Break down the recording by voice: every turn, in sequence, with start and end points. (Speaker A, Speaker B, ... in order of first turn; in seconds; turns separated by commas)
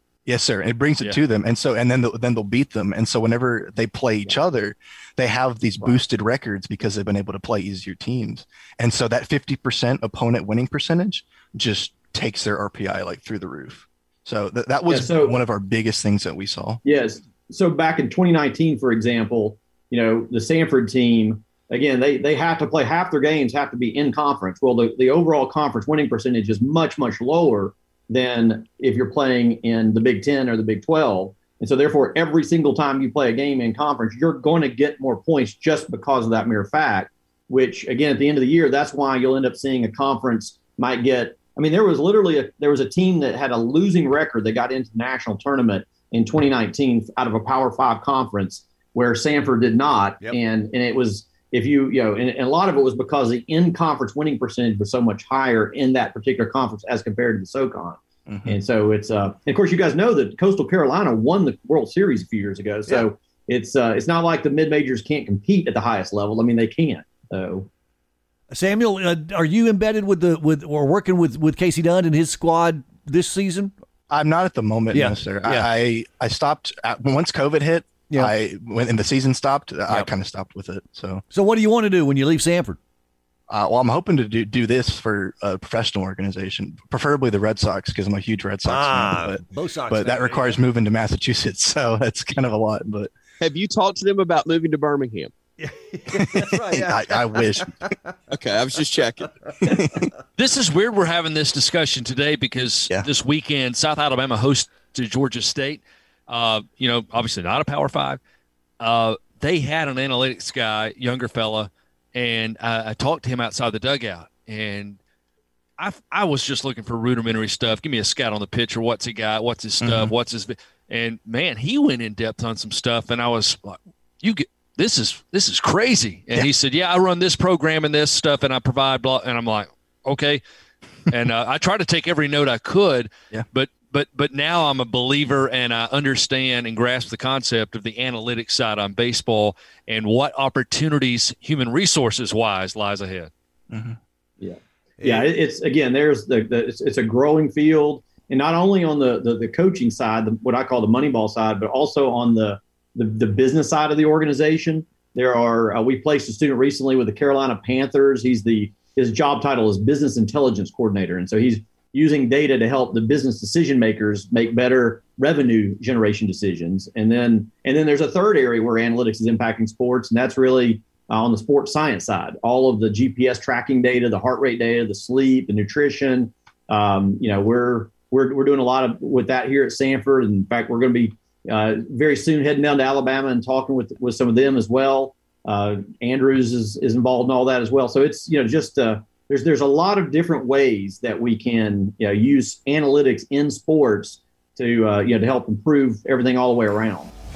Speaker A: 0.2-16.8, Speaker B: 14.9-15.4, Speaker B: 16.8-67.7, Speaker A: 58.3-58.6, Speaker C: 68.5-73.7, Speaker A: 74.1-81.2, Speaker C: 74.9-75.7, Speaker C: 81.3-82.8, Speaker A: 83.5-93.1, Speaker C: 88.7-90.5, Speaker D: 93.4-95.3, Speaker C: 95.6-97.9, Speaker A: 96.2-97.7, Speaker D: 98.3-99.3, Speaker A: 99.6-100.1, Speaker E: 100.4-108.2, Speaker E: 108.8-115.0, Speaker E: 115.8-130.4, Speaker A: 119.8-120.1, Speaker E: 131.1-143.3, Speaker A: 143.7-144.0, Speaker B: 144.4-197.1, Speaker C: 145.0-145.3